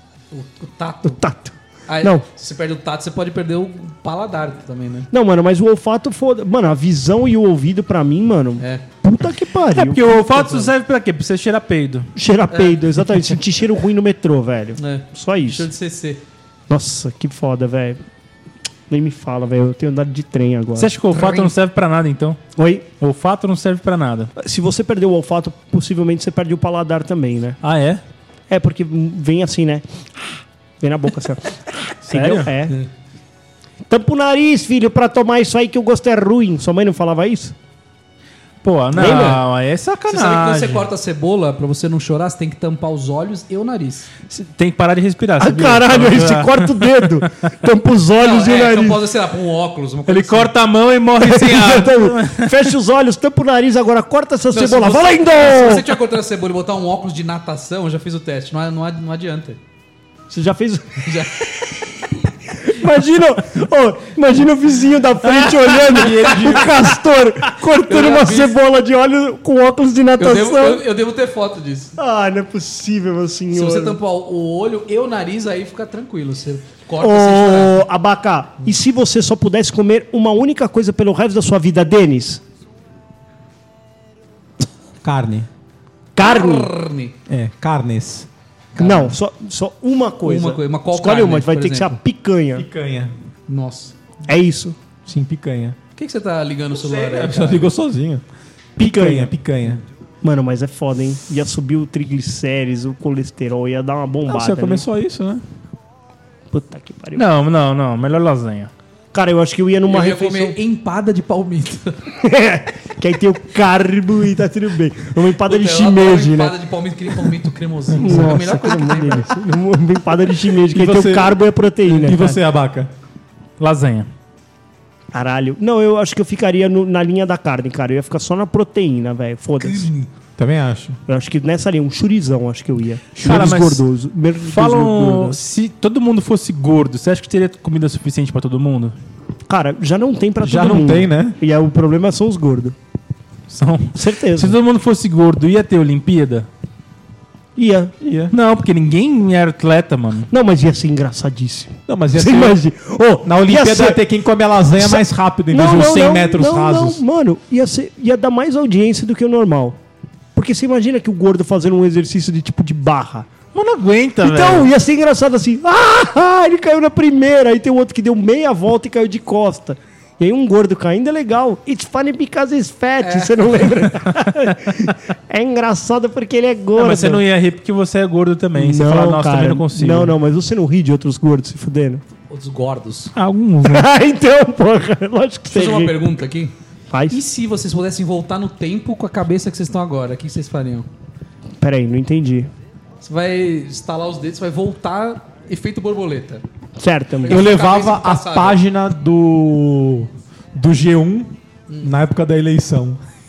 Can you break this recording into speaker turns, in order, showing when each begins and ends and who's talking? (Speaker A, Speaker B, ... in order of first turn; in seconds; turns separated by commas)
Speaker A: 0.3-1.2, Speaker B: 1.0-2.2, Speaker A: 1.9-5.1, Speaker B: 5.1-10.2, Speaker A: 8.6-8.8, Speaker C: 9.7-12.1, Speaker A: 10.3-10.7, Speaker B: 12.1-15.7, Speaker A: 12.5-12.8, Speaker A: 14.8-16.2, Speaker B: 16.7-18.0, Speaker B: 18.9-20.9, Speaker C: 20.8-22.4, Speaker A: 21.1-21.5, Speaker B: 22.6-22.8, Speaker C: 23.0-24.3, Speaker B: 24.4-27.6, Speaker C: 27.6-28.0, Speaker B: 28.5-32.8, Speaker C: 32.1-32.5, Speaker B: 33.9-37.5, Speaker C: 38.6-40.9, Speaker B: 38.9-39.4, Speaker A: 39.0-39.3, Speaker A: 40.1-44.1, Speaker C: 44.3-47.2, Speaker B: 45.4-49.0, Speaker A: 48.2-50.5, Speaker C: 50.1-52.7, Speaker B: 51.2-55.9, Speaker A: 54.5-59.6, Speaker B: 60.3-61.0, Speaker A: 61.0-61.5, Speaker B: 62.5-70.8, Speaker D: 65.7-66.9, Speaker A: 67.8-68.5, Speaker A: 70.2-72.0, Speaker B: 72.0-74.0, Speaker A: 73.5-77.8, Speaker B: 77.0-82.4, Speaker D: 85.0-85.5, Speaker B: 86.1-86.7, Speaker A: 86.2-87.1, Speaker D: 87.3-88.3, Speaker A: 88.7-89.1, Speaker B: 88.8-92.7, Speaker A: 90.2-92.0, Speaker D: 92.5-93.1, Speaker A: 93.5-94.0, Speaker B: 94.3-94.8, Speaker D: 95.0-95.8, Speaker A: 96.0-97.7, Speaker D: 96.7-98.2, Speaker B: 98.8-99.3, Speaker D: 98.8-99.8, Speaker B: 100.2-104.8, Speaker D: 104.2-105.4, Speaker B: 106.5-107.2, Speaker C: 107.1-108.7, Speaker B: 109.1-110.6, Speaker A: 109.9-112.0, Speaker B: 112.2-116.5, Speaker A: 115.4-119.3, Speaker D: 117.9-118.2, Speaker B: 118.0-122.4, Speaker D: 120.7-122.9, Speaker C: 123.6-124.1, Speaker B: 125.1-129.9, Speaker A: 129.6-130.1, Speaker D: 130.4-131.0, Speaker B: 131.1-135.4, Speaker C: 133.2-133.8, Speaker D: 133.2-133.6, Speaker C: 134.4-138.9, Speaker B: 139.5-142.7, Speaker D: 140.4-141.4, Speaker C: 143.5-146.5, Speaker B: 143.9-144.6, Speaker B: 147.6-147.9, Speaker D: 148.0-148.3, Speaker C: 148.3-150.3, Speaker B: 150.3-154.0, Speaker D: 151.9-152.6, Speaker D: 153.2-157.0, Speaker B: 154.8-159.8, Speaker B: 160.3-163.3, Speaker C: 163.5-164.7, Speaker B: 164.2-177.2, Speaker A: 173.0-173.5, Speaker C: 176.8-180.1, Speaker B: 178.6-182.0, Speaker A: 182.3-183.1, Speaker C: 183.1-183.9, Speaker B: 183.6-186.0, Speaker A: 185.5-186.5, Speaker B: 186.9-187.2, Speaker A: 187.1-190.9, Speaker B: 191.6-192.5, Speaker A: 193.0-196.4, Speaker B: 196.8-197.5, Speaker A: 197.2-198.6, Speaker D: 197.3-203.0, Speaker A: 201.7-201.9